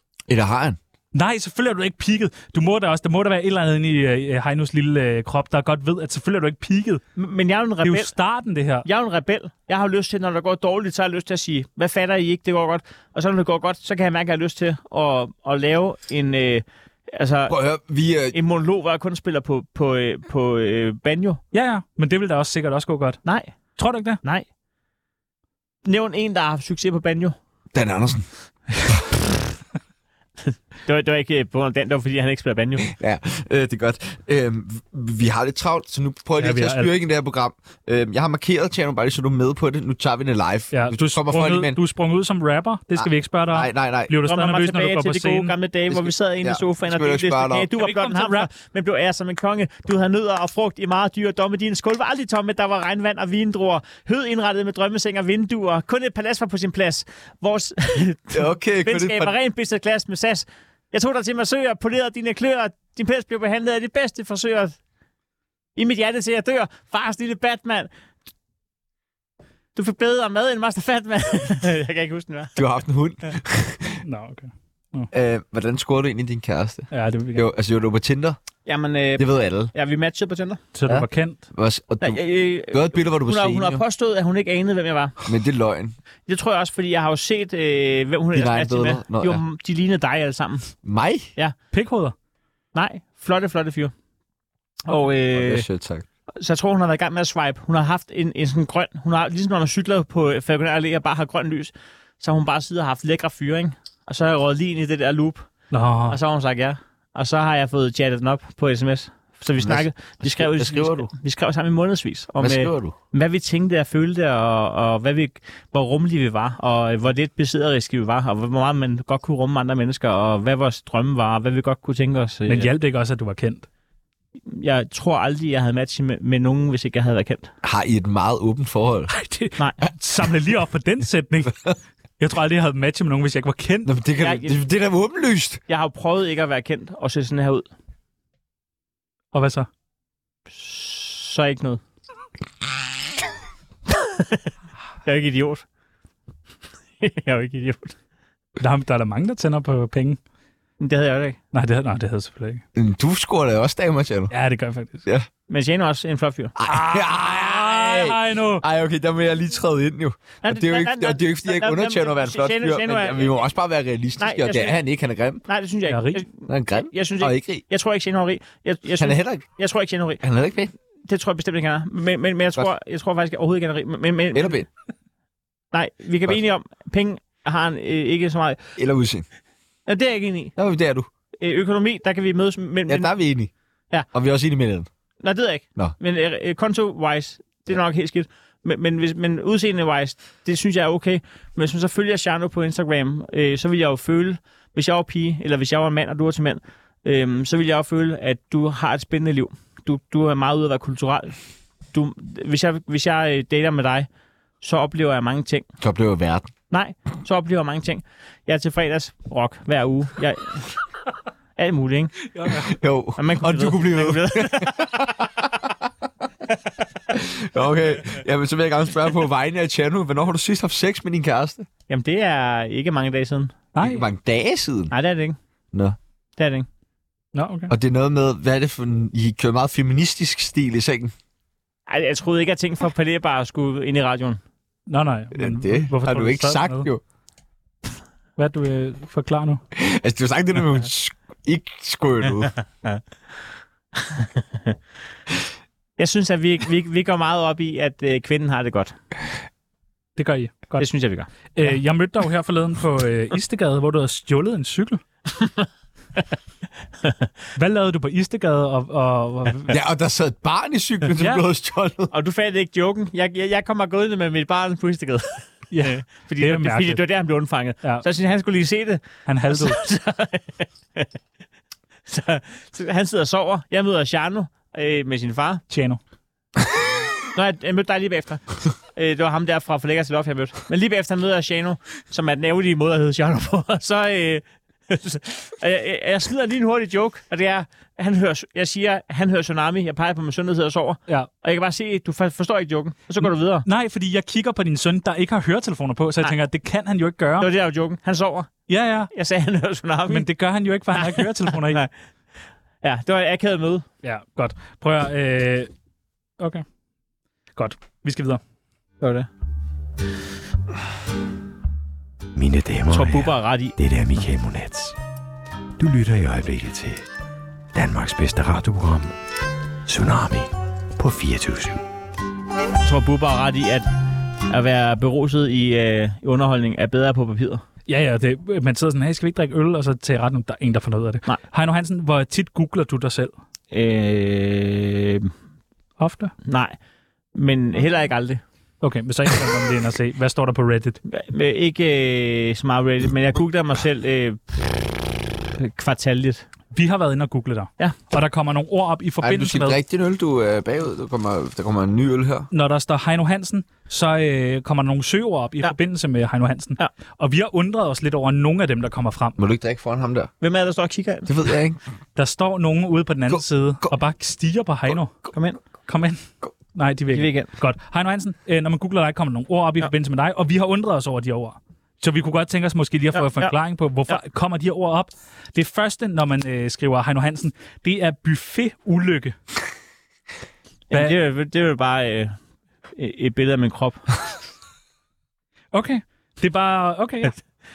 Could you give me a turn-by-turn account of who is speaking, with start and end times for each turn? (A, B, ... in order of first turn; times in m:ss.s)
0:00.3-0:00.8 A
0:01.1-0:07.0 B
0:07.2-0:08.1 C
0:07.8-0:08.9 B
0:08.8-0:17.6 C
0:17.5-0:18.4 A
0:18.3-0:21.4 C
0:21.5-0:23.2 B
0:23.2-0:24.5 C
0:23.8-0:24.2 B
0:25.8-0:27.4 C
0:27.7-0:28.3 A
0:30.8-0:32.9 C
0:32.8-0:41.8 A
0:36.4-0:36.9 B
0:40.7-0:45.5 B
0:43.0-0:44.1 A
0:44.2-1:04.8 C
0:45.9-0:47.7 A
0:47.8-0:48.5 B
0:58.3-0:59.4 A
1:05.8-1:07.9 C
1:09.8-1:12.6 C
1:12.6-1:14.0 A
1:14.0-1:15.1 B
1:15.1-1:18.4 A
1:16.9-1:17.5 B
1:18.7-1:20.6 C
1:19.2-1:19.7 A
1:20.7-1:21.4 B
1:20.9-1:23.8 A
1:22.0-1:25.2 C
1:25.2-1:26.0 A
1:26.3-1:30.7 C
1:28.3-1:29.4 A
1:30.8-1:31.3 A
1:31.7-1:32.2 B
1:32.7-1:33.9 C
1:34.9-1:35.7 C
1:35.3-1:36.1 A
1:36.4-1:45.5 C
1:45.7-1:46.2 B
1:46.1-2:02.7 C
1:49.6-1:51.1 A
1:52.4-1:53.0 A
2:02.5-2:03.7 B
2:04.4-2:07.5 C
2:07.6-2:09.1 A
2:09.1-2:11.6 B
2:12.2-2:13.9 B
2:13.8-2:15.6 A
2:14.2-2:14.6 C
2:15.7-2:17.7 C
2:19.3-2:19.7 B
2:20.5-2:21.8 C
2:23.9-2:24.4 C
2:25.0-2:25.6 C
2:27.0-2:28.0 C
2:28.6-2:30.2 B
2:30.8-2:31.4 C
2:31.5-2:32.6 B
2:32.8-2:34.3 A
2:34.3-2:35.0 B
2:35.5-2:36.5 C
2:36.6-2:45.4 A
2:36.7-2:38.6 B
2:40.4-2:43.4 C
2:44.2-2:44.8 C
2:45.5-2:50.2 C
2:45.9-2:46.2 B
2:46.5-2:47.6 A
2:49.0-2:49.4 A
2:50.2-2:50.7 A
2:51.1-2:54.6 C
2:54.3-2:54.7 A
2:55.7-2:58.6 C
2:58.8-2:59.3 A
2:59.9-3:00.6 C
3:00.6-3:01.1 A
3:01.4-3:03.1 C
3:02.9-3:03.5 A
3:04.1-3:04.9 A
3:05.2-3:21.4 C
3:21.9-3:24.1 C
3:24.6-3:25.7 C
3:25.8-3:26.5 A
3:26.7-3:30.6 C
3:31.6-3:32.2 C
3:32.3-3:32.7 B
3:32.5-3:35.7 A
3:33.2-3:35.0 C
3:37.1-3:41.7 A
3:41.9-3:43.6 C
3:43.8-3:44.1 B
3:43.8-3:44.9 A
3:44.9-3:45.4 C
3:46.4-3:46.7 C
3:47.3-3:47.7 B
3:47.7-3:51.1 A
3:51.9-3:54.4 C
3:54.9-3:56.9 B
3:55.3-3:57.0 A
3:58.4-3:59.6 B
3:59.8-4:02.5 A
4:04.0-4:04.8 C
4:06.0-4:09.0 C
4:10.2-4:10.9 B
4:10.8-4:11.3 C
4:11.5-4:15.0 B
4:15.4-4:15.7 C
4:17.6-4:19.8 B
4:19.7-4:22.1 A
4:21.2-4:21.4 B
4:22.1-4:31.1 C
4:25.7-4:27.0 B
4:29.3-4:29.8 B
4:32.1-4:35.6 C
4:35.7-4:36.0 B
4:37.3-4:38.4 C
4:38.9-4:53.7 C
4:53.2-4:57.5 B
4:57.4-4:58.5 C
4:58.7-4:59.1 B
4:59.1-5:00.3 C
5:00.1-5:01.8 B
5:00.9-5:01.9 C
5:02.8-5:03.9 C
5:04.0-5:05.7 B
5:06.4-5:06.6 B
5:07.6-5:08.4 B
5:09.0-5:09.3 C
5:12.4-5:15.0 D
5:12.9-5:13.8 C
5:15.8-5:17.0 D
5:17.7-5:19.1 D
5:19.9-5:21.8 D
5:22.8-5:23.9 C
5:24.5-5:27.6 C
5:27.9-5:33.3 B
5:33.7-5:35.3 C
5:36.0-5:36.3 B
5:36.4-5:36.8 C
5:37.4-5:38.4 C
5:38.8-5:41.0 B
5:41.1-5:44.8 C
5:45.6-5:46.4 C
5:46.7-5:49.8 B
5:49.2-5:52.5 A
5:52.5-5:59.4 B
5:59.4-6:00.3 A
6:00.4-6:01.3 C
6:01.3-6:01.8 A
6:02.2-6:05.2 B
6:03.3-6:03.9 A
6:05.3-6:05.6 C
6:05.9-6:19.4 B
6:07.1-6:07.5 C
6:13.2-6:13.5 C
6:20.9-6:22.4 C
6:23.0-6:24.1 C
6:25.7-6:27.4 B